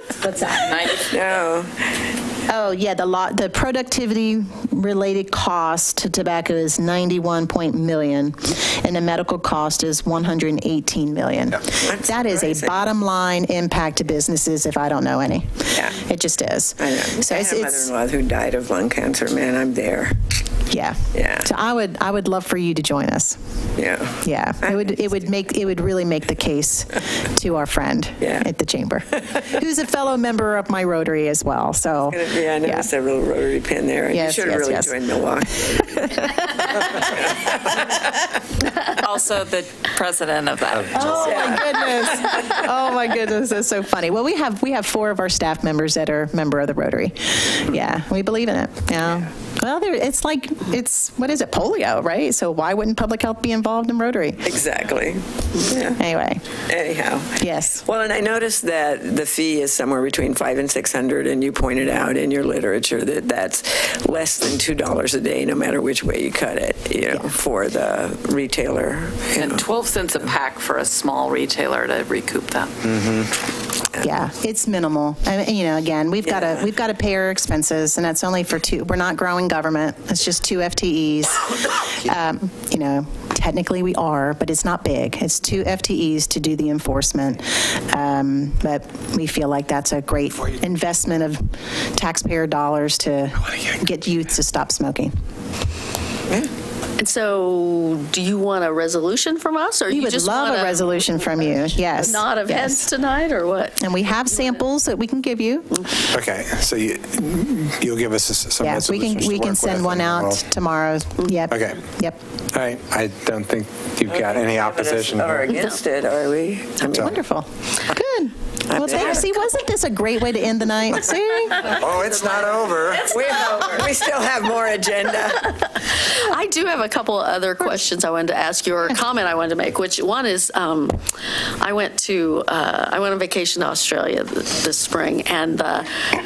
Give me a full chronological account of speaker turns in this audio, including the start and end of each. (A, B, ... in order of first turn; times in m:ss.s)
0:00.2-0:00.7 A
0:00.7-0:01.0 B
0:00.9-0:01.8 C
0:02.5-0:17.9 A
0:11.8-0:12.9 C
0:16.8-0:20.2 C
0:20.7-0:23.4 A
0:21.1-0:21.5 C
0:23.8-0:25.0 C
0:24.2-0:32.9 A
0:28.2-0:28.5 C
0:32.1-0:38.0 C
0:34.1-0:34.9 A
0:38.9-0:41.6 B
0:40.9-0:54.5 A
0:41.1-0:42.1 C
0:54.4-0:56.0 C
0:56.0-0:56.4 A
0:56.7-1:09.5 C
0:57.4-0:57.8 A
1:09.4-1:13.2 B
1:14.0-1:35.1 A
1:37.0-1:43.8 D
1:39.9-1:42.9 A
1:43.8-1:45.8 A
1:45.7-1:46.0 D
1:46.1-1:50.4 E
1:48.6-1:52.2 A
1:51.5-1:51.8 E
1:52.5-1:55.5 E
1:54.1-1:57.1 C
1:56.9-1:57.2 E
1:56.9-2:01.9 A
1:58.7-1:59.2 C
2:01.8-2:03.0 E
2:01.8-2:03.9 D
2:03.0-2:05.8 C
2:05.8-2:11.0 D
2:11.6-2:15.9 D